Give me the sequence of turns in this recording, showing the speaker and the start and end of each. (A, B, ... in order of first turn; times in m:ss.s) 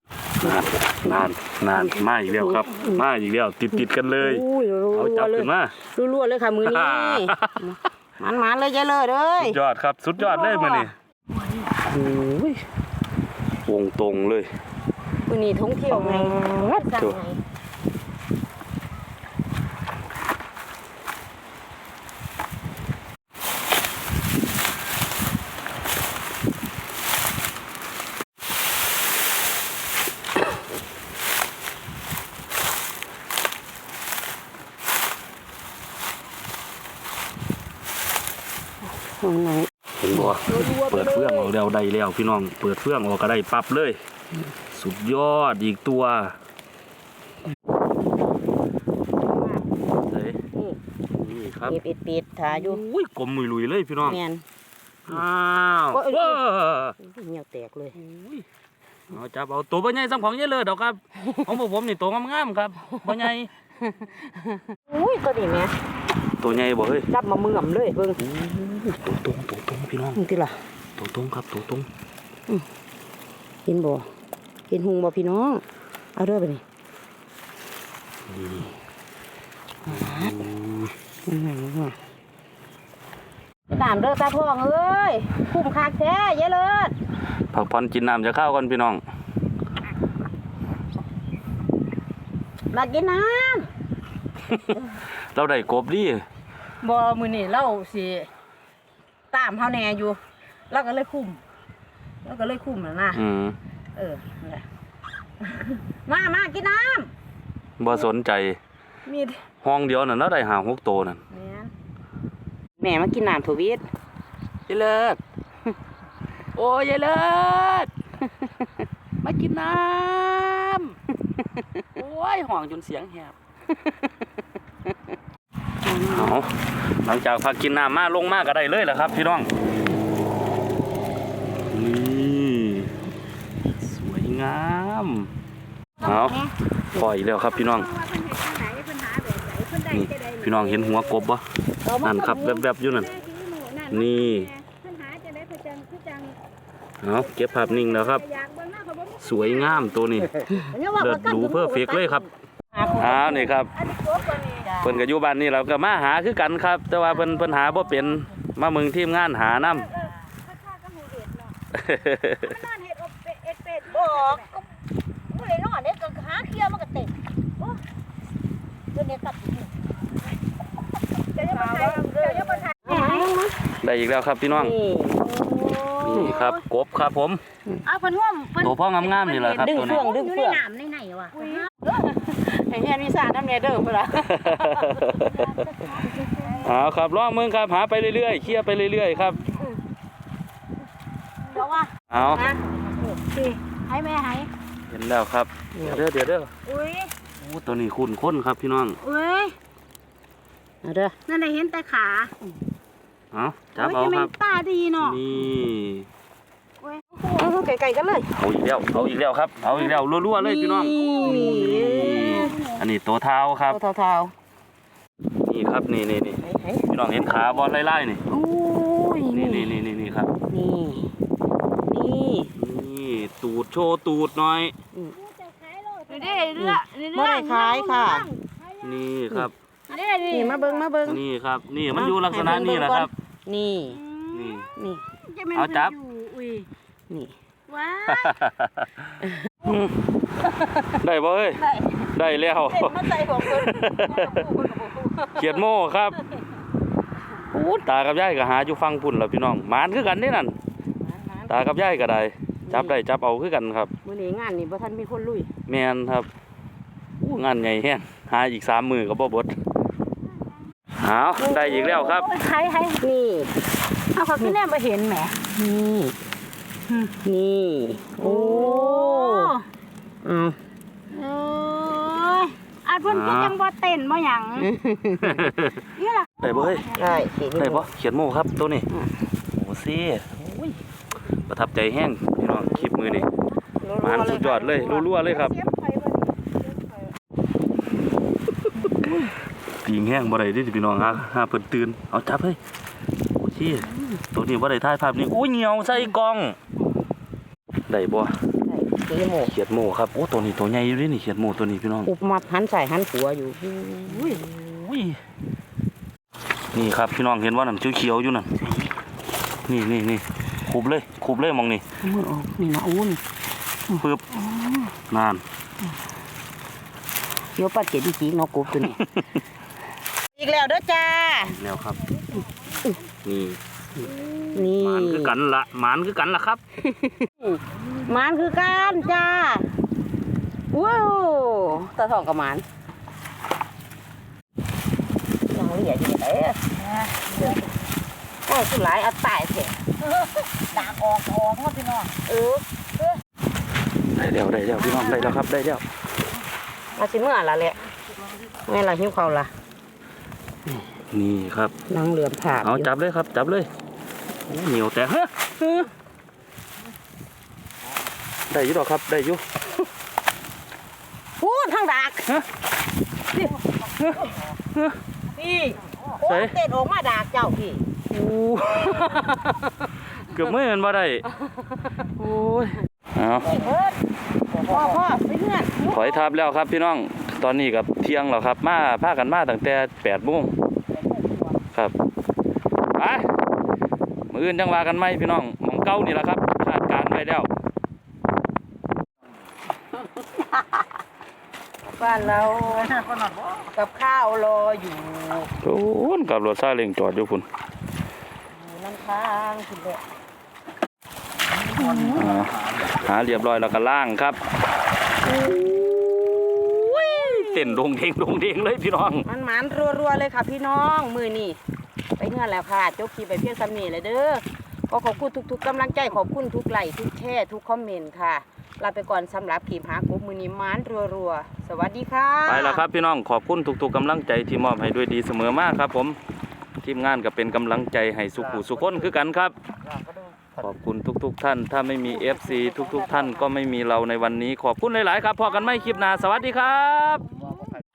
0:00.4-0:05.7 A
0:01.7-0:03.0 B
0:03.8-0:09.6 B
0:06.6-0:07.6 A
0:09.4-0:10.9 A
0:10.2-0:10.9 B
0:11.7-0:12.6 B
0:13.6-0:14.5 A
0:15.3-0:17.4 B
0:16.0-0:17.2 A
0:39.2-0:41.5 B
0:40.0-0:44.0 A
0:44.7-0:46.4 A
0:49.2-0:49.6 B
0:50.0-0:50.4 A
0:51.1-0:51.8 A
0:51.7-0:52.8 B
0:52.5-0:54.2 A
0:54.0-0:54.4 B
0:55.0-0:57.0 A
0:55.9-0:56.4 B
0:57.0-0:58.0 B
0:58.0-0:58.4 A
0:59.1-1:03.5 A
1:04.8-1:05.7 B
1:06.4-1:07.1 A
1:07.1-1:08.8 B
1:08.2-1:10.2 A
1:10.1-1:10.6 B
1:11.0-1:11.9 A
1:13.6-1:14.1 B
1:14.7-1:15.6 B
1:16.1-1:16.6 B
1:18.3-1:18.7 A
1:19.9-1:20.3 B
1:19.9-1:20.9 A
1:21.2-1:22.0 B
1:23.7-1:26.9 B
1:27.5-1:29.0 A
1:32.7-1:33.7 B
1:35.3-1:36.2 A
1:36.8-1:38.3 B
1:39.3-1:41.4 B
1:42.2-1:43.2 B
1:43.1-1:43.6 A
1:43.9-1:44.6 B
1:45.5-1:47.1 B
1:47.8-1:48.6 A
1:49.0-1:49.4 B
1:49.6-1:51.2 A
1:51.3-1:51.7 B
1:52.8-1:53.8 B
1:54.7-1:55.2 A
1:56.6-1:57.9 A
1:59.2-2:00.9 A
2:01.8-2:03.3 A
2:05.8-2:06.4 B
2:06.0-2:09.5 A
2:11.7-2:12.9 A
2:13.8-2:15.3 A
2:16.0-2:16.4 A
2:16.0-2:16.4 B
2:16.9-2:17.9 A
2:17.8-2:20.9 C
2:19.9-2:21.4 A
2:21.8-2:22.6 B
2:22.0-2:23.1 A
2:23.1-2:26.4 C
2:23.9-2:24.5 A
2:27.0-2:28.2 A
2:27.7-2:29.2 C
2:29.2-2:32.3 A
2:30.6-2:31.4 B
2:31.4-2:31.8 C
2:32.7-2:33.5 B
2:32.9-2:33.7 A
2:33.9-2:34.7 C
2:34.5-2:35.0 B
2:34.8-2:39.9 A
2:40.7-2:41.5 C
2:41.7-2:42.6 A
2:42.5-2:44.4 C
2:43.9-2:44.6 B
2:45.3-2:47.1 B
2:49.0-2:49.6 B
2:51.3-2:53.5 B
2:51.4-2:53.3 C
2:53.8-2:54.7 A
2:54.5-2:55.4 B
2:55.3-2:56.6 C
2:56.0-2:57.4 A
2:56.0-2:56.3 B
2:57.9-3:01.6 C
2:58.6-3:00.0 A
2:59.5-3:00.6 B
3:01.4-3:04.6 B
3:04.2-3:05.4 A
3:06.0-3:06.6 B
3:06.6-3:09.4 A
3:12.1-3:12.4 A
3:12.3-3:13.2 B
3:13.3-3:14.5 C
3:14.9-3:16.5 A
3:15.7-3:16.0 B
3:17.4-3:19.0 A
3:19.0-3:19.5 C
3:20.8-3:21.2 B
3:21.2-3:22.3 C
3:23.3-3:24.3 A
3:23.8-3:25.1 C
3:25.0-3:26.1 A
3:27.2-3:28.3 B
3:28.4-3:33.8 A
3:30.4-3:32.6 B
3:31.2-3:32.5 C
3:33.7-3:34.3 B
3:35.4-3:38.2 A
3:36.4-3:36.9 B
3:38.3-3:39.7 B
3:39.3-3:40.3 A
3:40.5-3:41.1 B
3:41.8-3:42.5 B
3:42.6-3:44.7 A
3:44.9-3:45.2 B
3:45.4-3:48.4 C
3:46.5-3:48.3 B
3:48.8-3:49.5 A
3:49.9-3:50.8 C
3:50.3-3:51.2 B
3:51.0-3:53.1 A
3:51.9-3:54.0 B
3:54.0-3:54.7 C
3:54.3-3:54.7 A
3:54.7-3:55.1 B
3:55.2-3:56.7 C
3:55.5-3:56.0 A
3:57.1-3:57.3 B
3:57.7-3:58.3 C
3:58.1-3:58.9 A
3:59.6-3:59.9 A
4:00.7-4:04.4 A
4:02.8-4:05.3 B
4:05.3-4:06.2 A
4:07.5-4:10.5 A
4:11.0-4:11.6 B
4:11.5-4:13.9 A
4:12.7-4:13.0 B
4:14.0-4:15.5 B
4:15.7-4:16.3 A
4:17.2-4:19.6 A
4:21.0-4:22.3 A
4:21.6-4:23.0 C
4:23.0-4:23.5 B
4:24.1-4:25.4 C
4:25.4-4:26.2 B
4:27.0-4:29.5 B
4:28.2-4:29.6 C
4:30.2-4:30.6 B
4:31.1-4:34.6 C
4:33.0-4:33.6 A
4:34.6-4:35.4 B
4:35.2-4:35.8 A
4:36.0-4:36.2 C
4:36.4-4:36.9 A
4:36.9-4:37.9 B
4:37.5-4:38.9 A
4:38.9-4:39.2 B
4:39.6-4:40.6 A
4:41.5-4:43.3 A
4:43.8-4:45.3 B
4:44.0-4:45.5 A
4:49.0-4:49.3 B
4:49.8-4:52.6 A
4:53.4-4:56.6 A
4:57.9-4:58.4 A
4:58.6-4:59.5 B
4:59.5-5:02.1 A
5:02.0-5:04.4 B
5:04.1-5:05.2 A
5:06.7-5:08.5 A
5:09.6-5:11.8 A
5:12.0-5:13.2 B
5:14.0-5:14.9 B
5:14.0-5:14.2 A
5:15.1-5:15.4 A
5:17.5-5:19.0 B
5:20.3-5:21.6 B
5:21.5-5:22.0 A
5:23.2-5:23.6 A
5:24.5-5:25.3 B
5:24.6-5:26.6 A
5:26.8-5:29.7 B
5:30.7-5:32.6 B
5:35.5-5:36.7 B
5:37.3-5:37.6 B
5:38.4-5:41.0 B
5:41.0-5:41.6 C
5:42.0-5:42.6 B
5:44.2-5:45.8 A
5:46.9-5:47.8 B
5:48.6-5:49.5 B
5:51.1-5:51.7 A
5:51.9-5:52.9 B
5:52.6-5:53.7 A
5:54.5-5:55.9 A
5:58.5-5:59.4 A
6:01.4-6:02.4 B
6:05.3-6:07.8 B
6:06.2-6:06.5 A
6:08.1-6:09.4 A
6:10.3-6:11.2 A
6:12.2-6:13.5 A
6:13.4-6:13.8 B
6:14.6-6:16.0 B
6:15.8-6:20.5 A
6:21.0-6:21.4 B
6:22.9-6:23.3 A
6:24.3-6:27.5 A
6:31.8-6:33.0 B
6:33.6-6:35.5 B
6:35.6-6:37.4 A
6:38.5-6:40.0 B
6:41.8-6:42.2 B
6:42.1-6:44.4 A
6:45.3-6:45.9 B
6:46.6-6:49.2 A
6:46.8-6:47.8 B
6:49.2-6:51.6 B
6:52.2-7:02.8 B
7:02.4-7:06.2 A
7:06.8-7:09.5 A
7:10.6-7:17.2 A